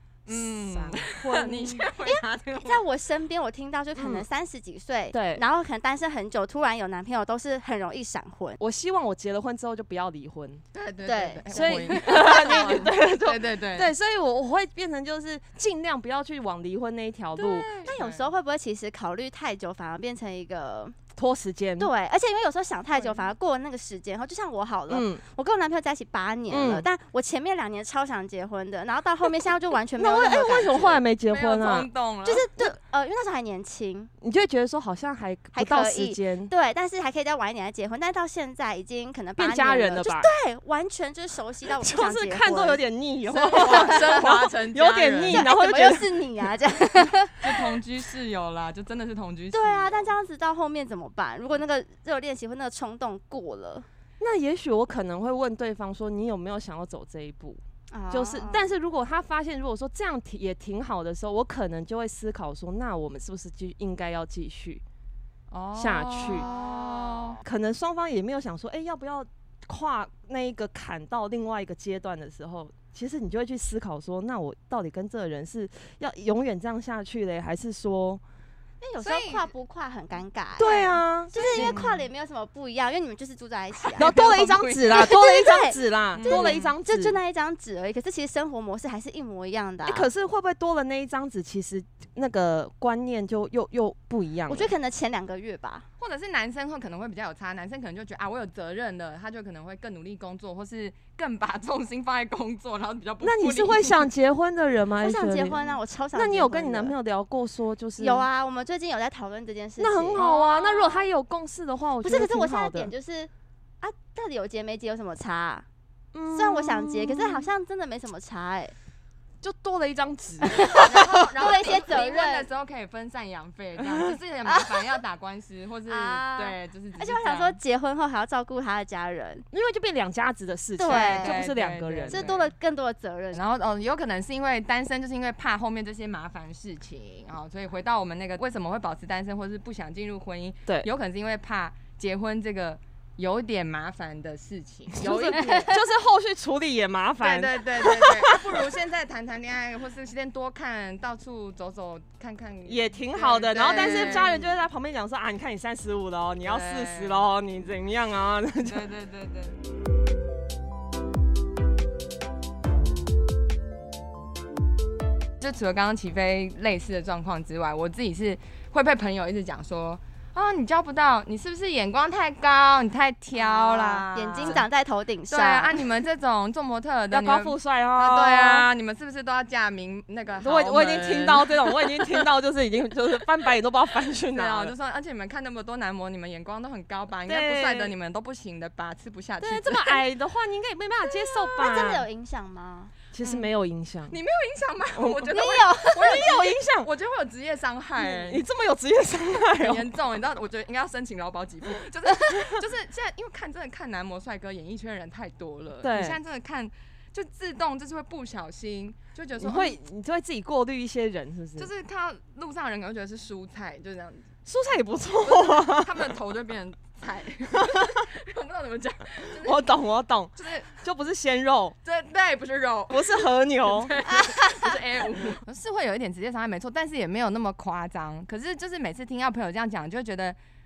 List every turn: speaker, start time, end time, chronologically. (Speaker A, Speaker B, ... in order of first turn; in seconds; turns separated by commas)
Speaker A: 0.3-2.8, Speaker B: 0.3-1.9, Speaker C: 1.9-8.6, Speaker B: 4.0-4.3, Speaker B: 5.1-5.4, Speaker B: 8.6-10.6, Speaker A: 10.7-13.9, Speaker C: 11.1-12.8, Speaker B: 11.5-17.7, Speaker A: 17.4-18.3, Speaker C: 17.8-21.0, Speaker B: 21.2-21.9, Speaker C: 21.8-30.8, Speaker A: 22.9-23.3, Speaker B: 24.9-25.2, Speaker B: 26.5-26.9, Speaker B: 30.0-31.9, Speaker A: 30.7-32.5, Speaker C: 32.2-34.1, Speaker B: 34.2-36.5, Speaker C: 35.5-42.8, Speaker B: 39.4-40.3, Speaker B: 41.8-46.2, Speaker C: 43.3-44.3, Speaker A: 43.5-45.5, Speaker C: 45.3-47.5, Speaker A: 47.4-50.0, Speaker C: 49.5-53.9, Speaker B: 54.2-64.8, Speaker C: 57.9-58.7, Speaker A: 65.5-67.4, Speaker B: 65.8-66.5, Speaker C: 66.2-67.4, Speaker B: 67.4-78.2, Speaker C: 78.8-84.1, Speaker A: 79.0-79.5, Speaker B: 80.6-81.9, Speaker A: 80.6-81.9, Speaker A: 83.8-85.1, Speaker B: 84.0-87.2, Speaker C: 84.9-90.1, Speaker A: 86.2-86.7, Speaker B: 89.9-94.7, Speaker C: 94.5-95.9, Speaker A: 96.0-104.1, Speaker B: 103.2-108.3, Speaker C: 105.0-106.9, Speaker C: 108.0-111.0, Speaker B: 109.8-112.9, Speaker C: 112.0-113.3, Speaker C: 113.8-115.7, Speaker B: 116.1-117.5, Speaker C: 116.3-118.7, Speaker B: 119.4-121.0, Speaker C: 120.5-122.5, Speaker A: 120.7-127.6, Speaker B: 123.8-124.2, Speaker C: 124.5-125.0, Speaker C: 125.9-129.4, Speaker B: 129.5-132.3, Speaker C: 130.8-131.4, Speaker A: 130.9-132.5, Speaker C: 132.1-133.4, Speaker A: 133.3-145.8, Speaker B: 145.0-148.7, Speaker C: 145.3-145.7, Speaker A: 147.2-154.5, Speaker B: 152.7-158.9, Speaker A: 156.4-157.2, Speaker A: 158.6-159.6, Speaker A: 165.4-174.7, Speaker C: 173.3-175.8, Speaker A: 175.3-182.1, Speaker B: 177.1-178.7, Speaker B: 180.4-184.7, Speaker A: 184.3-190.0, Speaker B: 187.3-187.9, Speaker B: 189.4-192.1, Speaker C: 191.5-192.9, Speaker B: 193.1-194.2, Speaker A: 193.2-193.5, Speaker A: 194.1-198.4, Speaker B: 194.9-195.4, Speaker C: 195.3-196.2, Speaker B: 196.0-196.9, Speaker B: 198.0-199.9, Speaker A: 199.6-209.8, Speaker B: 205.8-206.2, Speaker B: 209.4-211.7, Speaker A: 211.6-214.3, Speaker B: 214.5-216.1, Speaker A: 215.2-219.8, Speaker B: 217.6-218.0, Speaker B: 219.3-221.8, Speaker A: 220.4-220.7, Speaker A: 221.8-230.4, Speaker B: 222.9-224.0, Speaker C: 224.1-224.7